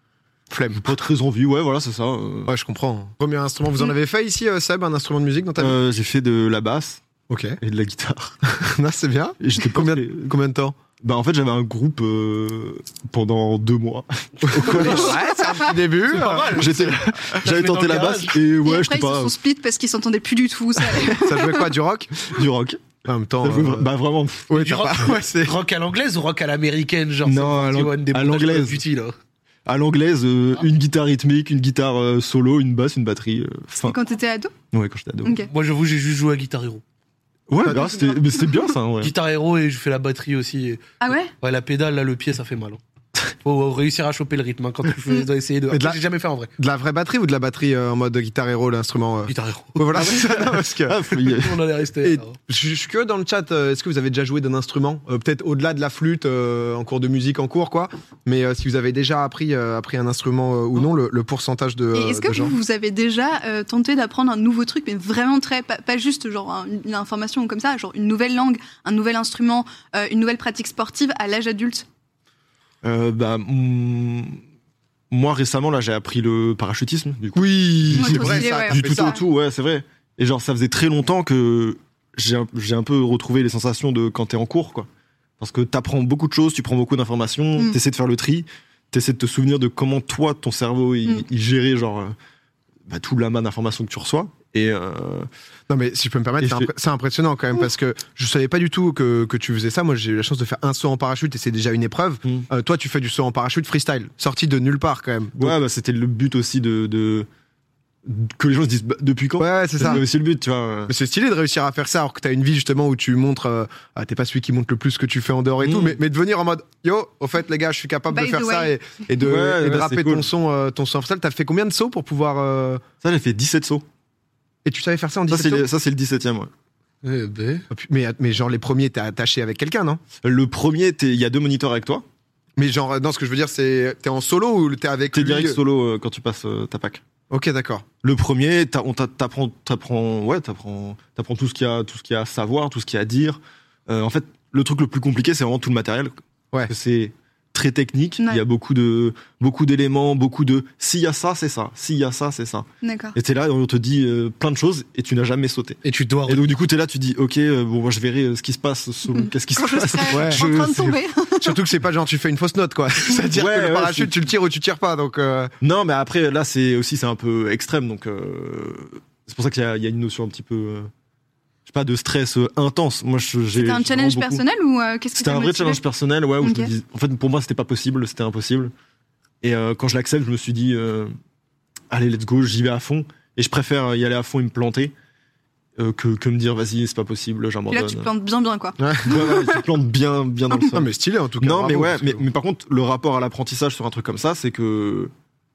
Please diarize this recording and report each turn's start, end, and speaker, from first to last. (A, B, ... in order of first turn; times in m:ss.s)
0:00.5-0:00.8 A
0:00.8-0:02.5 B
0:02.5-0:05.8 A
0:05.6-0:07.0 B
0:07.3-0:07.6 A
0:07.6-0:08.4 B
0:08.5-0:10.8 A
0:09.4-0:10.3 B
0:11.0-0:15.2 B
0:14.4-0:16.9 A
0:14.6-0:15.1 C
0:16.1-0:18.4 C
0:16.2-0:19.4 B
0:18.6-0:21.7 D
0:21.0-0:22.4 A
0:22.3-0:24.5 B
0:23.0-0:23.9 A
0:24.5-0:25.6 A
0:24.5-0:29.1 C
0:27.2-0:28.8 B
0:29.6-0:34.0 B
0:33.8-0:34.5 D
0:34.7-0:35.4 B
0:35.2-0:35.5 D
0:35.5-0:36.8 C
0:37.5-0:39.1 B
0:37.6-0:37.9 A
0:39.0-0:40.8 C
0:41.0-0:41.3 D
0:41.4-0:42.8 C
0:43.4-0:46.5 C
0:45.7-0:46.0 A
0:46.6-0:51.0 A
0:49.3-0:50.1 C
0:49.9-0:51.6 B
0:51.4-0:52.3 C
0:52.0-1:02.6 A
1:01.9-1:11.8 D
1:12.8-1:14.4 B
1:15.1-1:32.1 B
1:17.3-1:19.2 A
1:17.9-1:19.2 D
1:32.9-1:35.3 B
1:35.7-1:45.5 A
1:36.4-1:36.7 B
1:45.4-1:47.3 B
1:48.0-1:50.9 B
1:49.4-1:50.0 A
1:50.9-2:02.8 A
1:55.6-1:56.0 B
1:58.1-1:58.7 D
1:59.2-2:00.3 B
2:03.0-2:03.8 B
2:04.6-2:05.6 A
2:05.3-2:06.5 B
2:07.0-2:07.6 C
2:07.7-2:10.0 A
2:10.2-2:12.0 B
2:12.6-2:15.6 A
2:15.1-2:17.0 B
2:17.3-2:17.8 A
2:18.0-2:26.1 B
2:26.7-2:41.0 B
2:32.8-2:33.2 D
2:35.8-2:36.4 C
2:39.1-2:41.6 D
2:40.1-2:45.5 A
2:43.3-2:44.2 B
2:45.6-2:50.9 B
2:51.7-2:54.4 B
2:53.5-2:55.8 D
2:55.2-2:58.7 B
2:56.4-2:56.7 D
2:59.4-3:01.1 B
3:01.9-3:04.9 B
3:05.8-3:08.1 B
3:07.7-3:09.6 D
3:08.8-3:09.5 A
3:09.0-3:10.9 B
3:10.7-3:12.2 A
3:11.4-3:15.1 B